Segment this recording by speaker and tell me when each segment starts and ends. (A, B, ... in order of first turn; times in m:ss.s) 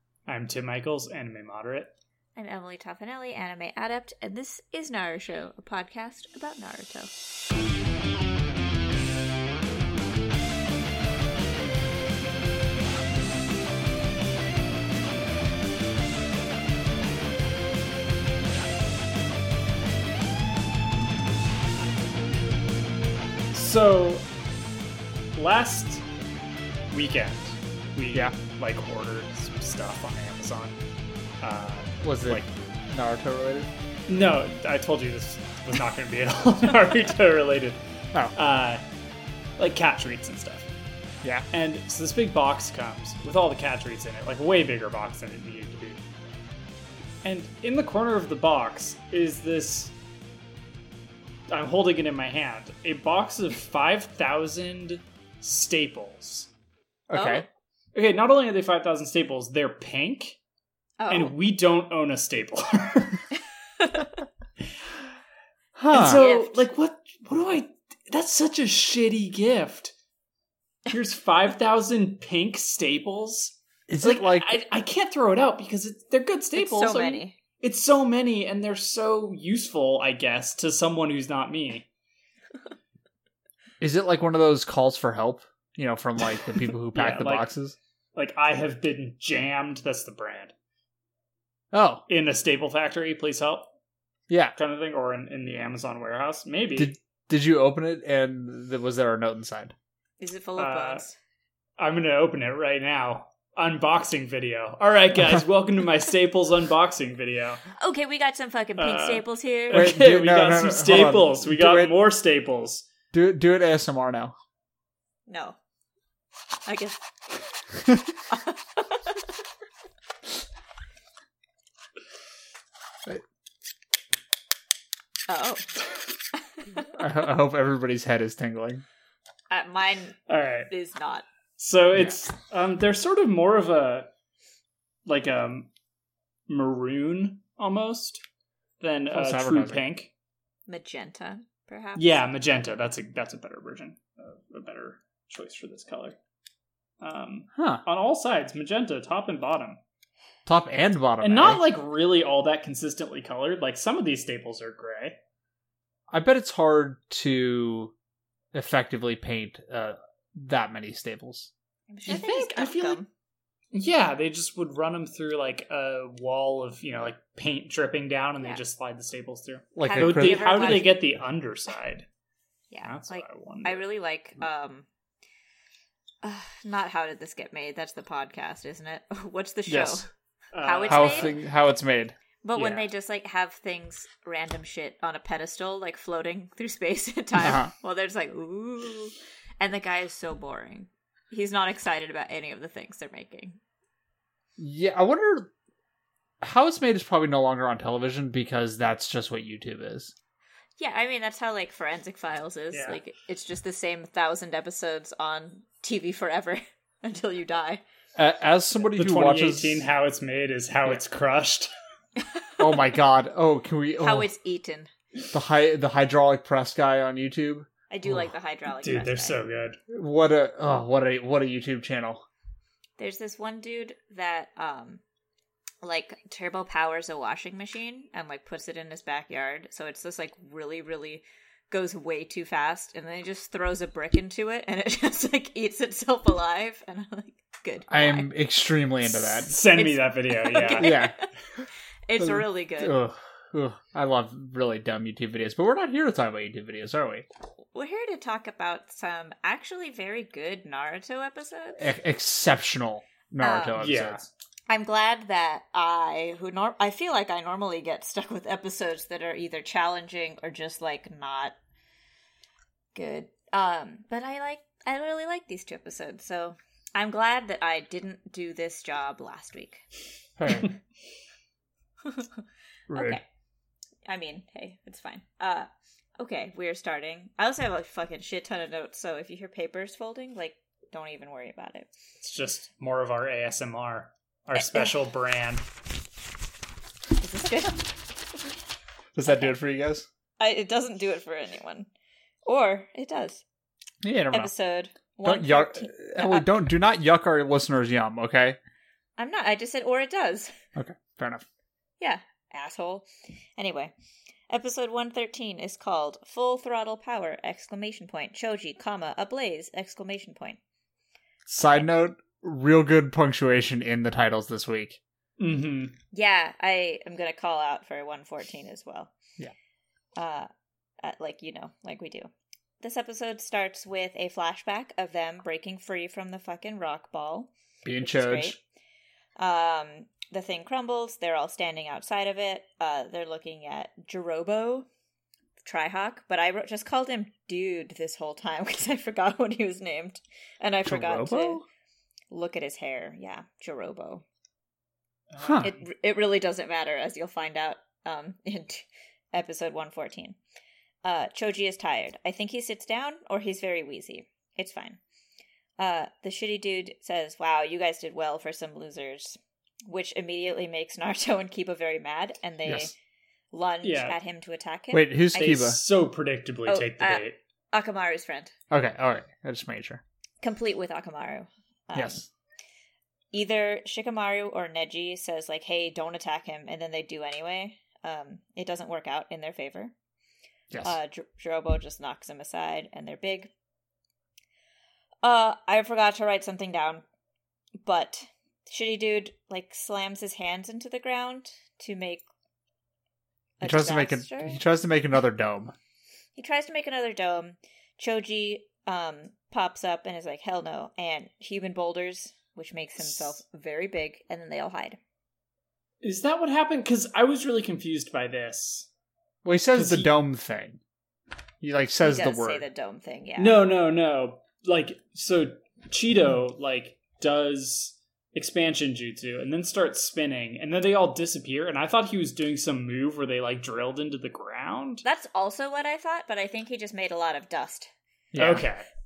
0:00.2-0:01.9 A
0:02.4-0:07.1 B
0:23.5-0:24.2 A
0:25.3-0:26.0 A
0:26.9-0:30.8 A
0:31.4-0:32.4 A
0:32.0-0:33.7 C
0:34.1-0:37.8 A
0:38.3-0:38.8 A
0:39.6-0:40.7 A
0:41.5-0:46.0 A
0:47.2-0:49.9 A
0:51.5-0:56.5 A
0:57.1-0:57.4 C
0:57.1-0:57.4 B
0:57.9-1:00.4 A
1:01.0-1:01.4 B
1:01.1-1:03.3 A
1:03.8-1:04.2 B
1:05.8-1:06.2 C
1:05.9-1:09.9 A
1:05.9-1:06.6 B
1:10.9-1:21.9 A
1:13.9-1:14.6 C
1:16.5-1:17.4 B
1:23.8-1:27.8 C
1:26.9-1:27.5 A
1:28.1-1:30.5 A
1:31.7-1:32.0 C
1:32.1-1:33.7 A
1:34.3-1:34.6 C
1:34.6-1:36.9 A
1:36.8-1:39.7 C
1:40.2-1:41.2 B
1:40.6-1:41.0 A
1:41.8-1:47.6 A
1:47.7-1:49.9 B
1:48.8-1:52.9 A
1:49.7-1:52.0 C
1:53.1-1:54.3 C
1:55.3-1:55.6 B
1:56.6-1:57.0 B
1:57.8-1:58.1 C
1:58.3-1:59.2 B
2:05.3-2:05.8 B
2:06.3-2:06.9 B
2:07.0-2:08.8 C
2:09.5-2:11.2 B
2:10.3-2:10.7 A
2:11.6-2:14.1 A
2:15.0-2:15.7 A
2:16.5-2:18.2 A
2:18.8-2:20.1 A
2:19.1-2:19.8 C
2:20.7-2:22.3 B
2:22.0-2:26.2 A
2:27.0-2:29.8 A
2:27.5-2:27.8 C
2:30.4-2:31.6 C
2:31.2-2:35.2 A
2:36.1-2:37.9 C
2:38.5-2:41.5 C
2:41.9-2:43.1 B
2:42.1-2:43.0 A
2:43.7-2:52.1 A
2:49.8-2:50.9 C
2:49.8-2:51.0 B
2:52.7-2:54.9 B
2:52.8-2:53.8 A
2:56.2-3:00.1 B
2:59.7-3:00.0 C
3:00.5-3:01.4 A
3:00.6-3:01.4 B
3:00.8-3:02.1 C
3:02.4-3:13.6 B
3:02.6-3:02.8 A
3:07.4-3:07.7 C
3:14.6-3:15.5 C
3:16.4-3:20.1 C
3:20.8-3:27.8 B
3:22.7-3:23.0 A
3:28.2-3:29.8 C
3:28.9-3:31.7 A
3:32.2-3:32.8 B
3:32.6-3:34.3 C
3:34.0-3:34.9 B
3:35.3-3:37.7 C
3:37.9-3:39.4 B
3:38.1-3:39.8 A
3:39.9-3:42.2 C
3:43.0-3:45.0 B
3:45.8-3:58.3 B
3:57.9-3:59.5 C
3:59.4-4:01.0 A
3:59.4-4:01.3 B
4:00.6-4:01.2 C
4:02.1-4:02.9 B
4:02.2-4:07.3 C
4:07.7-4:11.8 B
4:11.8-4:14.2 C
4:13.4-4:13.8 B
4:13.8-4:14.2 A
4:14.7-4:21.5 B
4:22.9-4:29.8 B
4:30.4-4:30.7 C
4:32.0-4:33.2 B
4:32.9-4:33.2 C
4:34.1-4:41.9 B
4:42.2-4:45.6 A
4:44.5-4:44.9 B
4:47.2-4:47.9 B
4:49.1-4:50.1 C
4:49.3-4:49.5 B
4:50.4-4:51.9 B
4:52.4-4:53.4 B
4:54.0-4:54.5 C
4:54.3-4:56.5 B
4:55.2-4:58.6 C
4:59.2-5:00.5 B
5:00.8-5:01.4 C
5:02.0-5:03.9 B
5:04.5-5:10.6 B
5:11.5-5:15.0 C
5:15.4-5:15.9 A
5:16.1-5:19.1 B
5:20.2-5:20.5 B
5:21.0-5:28.6 B
5:27.8-5:28.6 C
5:29.4-5:34.9 B
5:35.6-5:41.6 B
5:40.8-5:41.6 C
5:42.3-5:44.2 B
5:45.3-5:45.8 A
5:45.4-5:45.7 C
5:45.6-5:50.4 B
5:51.0-5:55.0 B
5:55.8-6:02.9 B
6:02.6-6:02.9 C
6:03.5-6:05.6 B
6:03.8-6:04.2 A
6:04.9-6:05.8 C
6:05.3-6:07.4 A
6:06.6-6:08.5 B
6:08.7-6:10.0 C
6:10.4-6:12.2 B
6:11.9-6:12.3 C
6:13.3-6:19.9 B
6:20.7-6:21.0 C
6:20.8-6:23.5 B
6:25.2-6:27.0 B
6:27.8-6:32.2 B
6:33.6-6:34.6 B
6:33.6-6:35.7 C
6:36.4-6:45.0 B
6:46.0-6:48.9 A
6:49.4-6:50.8 C
6:49.7-6:50.1 A
6:51.6-6:52.6 C
6:52.0-6:53.6 B
6:53.4-7:05.0 A
7:05.0-7:07.9 B
7:08.3-7:08.6 C
7:08.4-7:08.9 A